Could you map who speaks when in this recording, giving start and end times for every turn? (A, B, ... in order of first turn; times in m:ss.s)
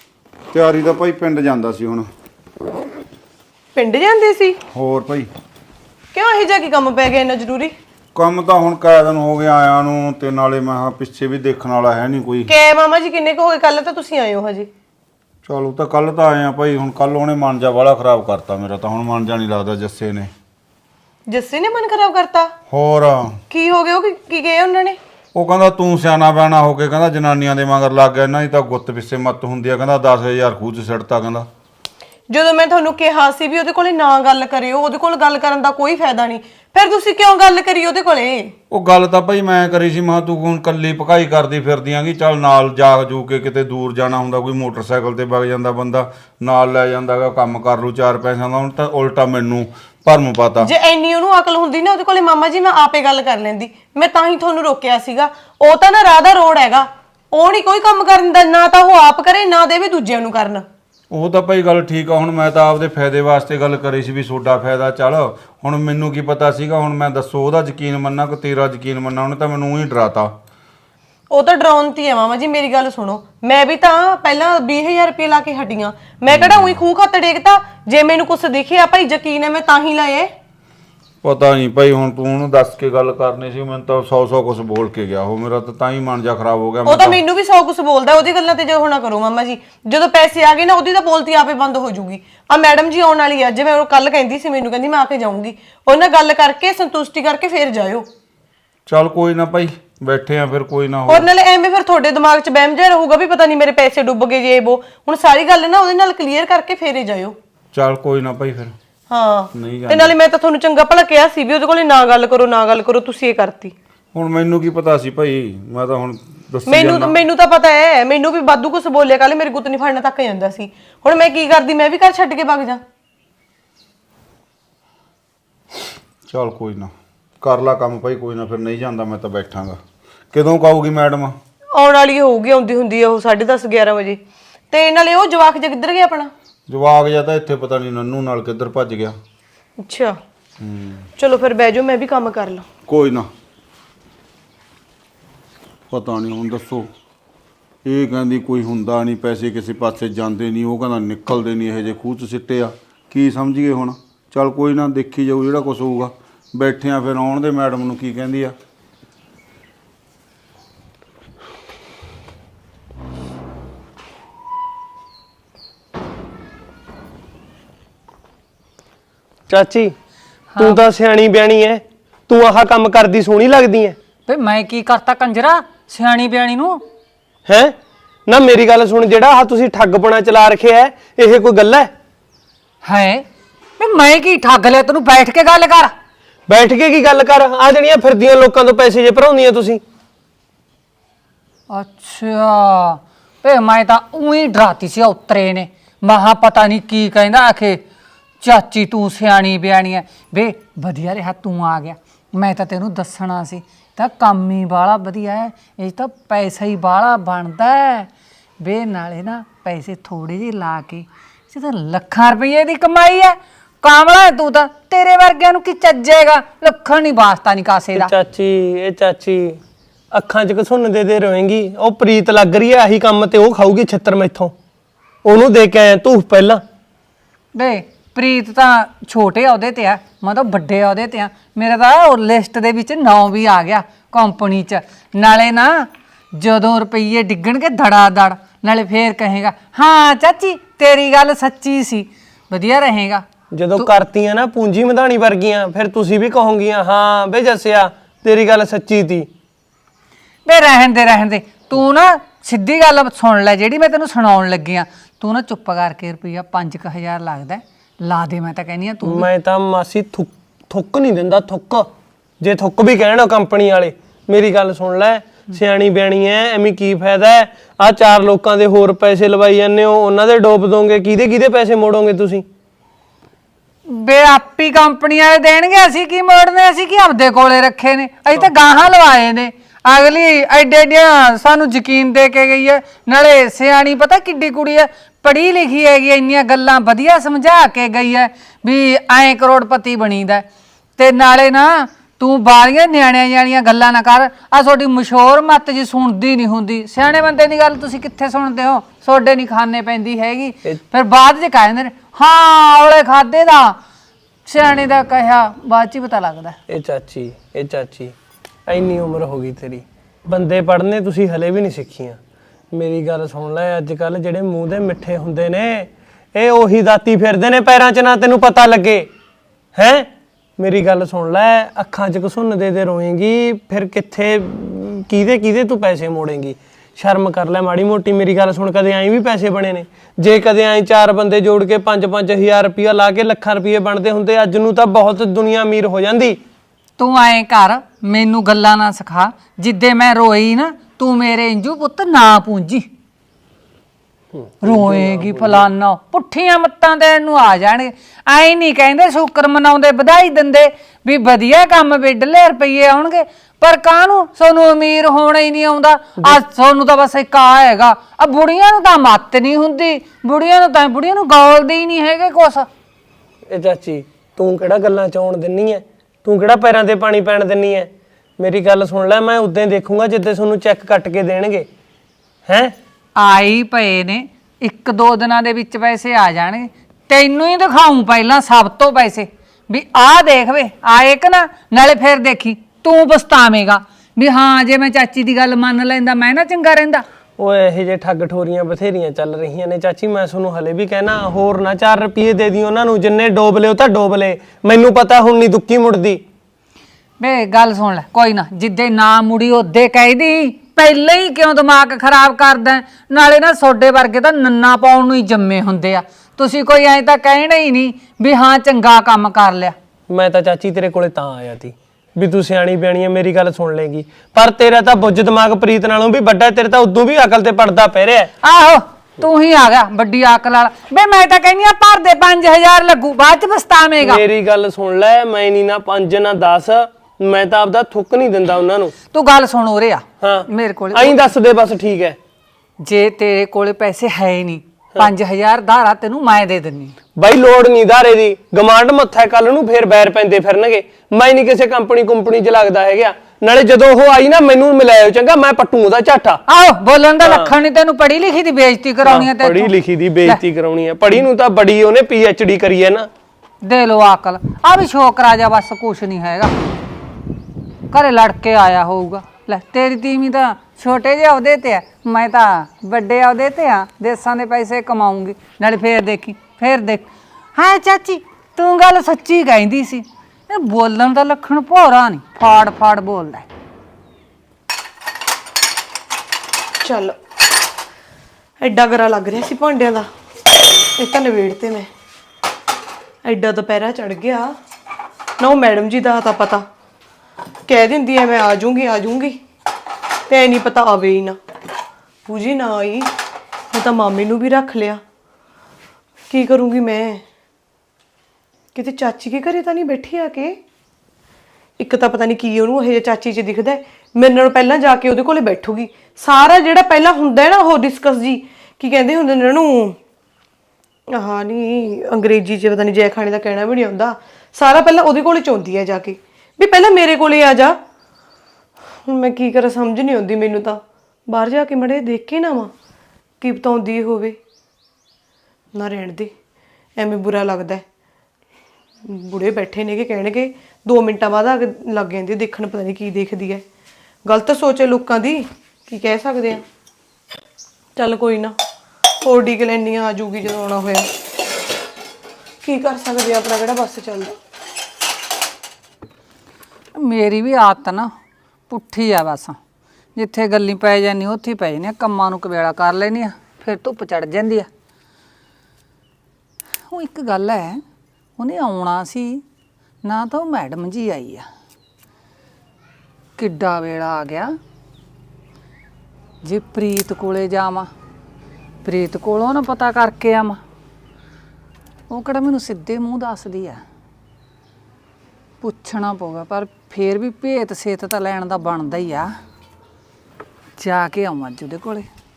0:00.5-0:02.1 A
0:03.8-0:04.6 B
0:04.7-0:05.3 A
0:06.1-0:07.7 B
0:08.2-0:12.5 A
0:12.5-0:14.7 B
0:15.5-0:20.3 A
0:21.3-0:22.5 B
0:22.7-0:23.4 A
0:23.5-0:25.0 B
0:25.4-0:31.5 A
0:32.3-0:38.5 B
0:38.7-0:50.7 A
0:50.6-1:00.6 B
1:01.1-1:10.4 A
1:11.3-1:20.3 B
1:16.3-1:16.8 A
1:21.2-1:27.2 A
1:26.9-1:38.1 B
1:38.9-1:41.3 A
1:41.1-1:47.4 B
1:47.7-1:48.7 A
1:49.1-1:53.7 B
1:49.5-1:50.1 A
1:54.1-1:57.2 A
1:56.7-2:02.8 B
2:06.3-2:09.8 A
2:10.3-2:11.4 A
2:11.7-2:14.2 B
2:14.7-2:16.3 B
2:16.7-2:19.2 A
2:19.8-2:20.2 B
2:20.6-2:21.1 A
2:21.2-2:22.7 B
2:22.9-2:23.3 A
2:25.9-2:26.9 A
2:27.8-2:38.6 A
2:49.5-2:50.0 C
2:50.5-2:50.8 D
2:50.6-2:54.0 C
2:54.3-2:56.8 D
2:57.5-2:57.8 C
2:58.3-3:01.9 C
3:02.8-3:03.2 D
3:03.8-3:05.9 D
3:06.5-3:09.8 C
3:11.7-3:17.8 D
3:18.4-3:28.1 D
3:28.6-3:38.1 D
3:38.0-3:39.6 C
3:40.1-3:44.5 C
3:45.2-3:46.6 C
3:47.6-4:03.3 D
4:03.5-4:09.3 C
4:10.4-4:19.3 D
4:19.0-4:21.9 C
4:22.4-4:32.4 C
4:33.9-5:03.8 D
5:04.5-5:06.6 D
5:06.7-5:08.2 C
5:08.7-5:12.2 C
5:12.7-5:19.1 C
5:19.8-5:36.4 C
5:37.0-5:42.9 D
5:44.4-5:45.7 C
5:44.6-6:02.7 D
6:03.5-6:11.7 C
6:12.5-6:12.8 C
6:13.2-6:27.0 D
6:27.4-6:36.2 C
6:37.2-6:49.8 D
6:50.1-6:58.3 C
6:58.4-7:04.2 D
7:04.0-7:08.9 C
7:09.1-7:11.3 D
7:10.2-7:12.2 C
7:12.8-7:17.0 D
7:17.2-7:26.4 C
7:26.5-7:29.7 D
7:27.2-7:27.5 C
7:29.0-7:33.1 C
7:33.6-7:36.5 D
7:37.9-7:53.5 D
7:56.8-7:57.2 B
7:58.6-8:00.1 B
8:01.0-8:01.9 B
8:03.2-8:04.6 B
8:05.4-8:06.6 B
8:07.7-8:09.4 B
8:10.3-8:11.4 B
8:12.3-8:13.1 B
8:13.7-8:15.0 B
8:16.3-8:17.2 B
8:18.8-8:20.6 B
8:21.8-8:30.0 B
8:31.1-8:37.8 B
8:39.1-8:42.7 B
8:43.4-8:44.4 B
8:45.7-8:46.3 B
8:47.0-8:47.8 B
8:49.0-8:53.6 B
8:54.3-8:56.6 B
8:58.0-8:58.6 B
8:59.2-9:01.1 B
9:02.6-9:04.4 B
9:07.0-9:08.1 D
9:08.7-9:09.6 D
9:10.2-9:14.7 D
9:16.9-9:17.8 D
9:18.4-9:19.4 D
9:20.0-9:21.5 D
9:23.4-9:24.6 D
9:26.4-9:27.9 D
9:28.8-9:30.6 D
9:32.1-9:33.8 D
9:35.6-9:39.3 D
9:40.8-9:42.1 D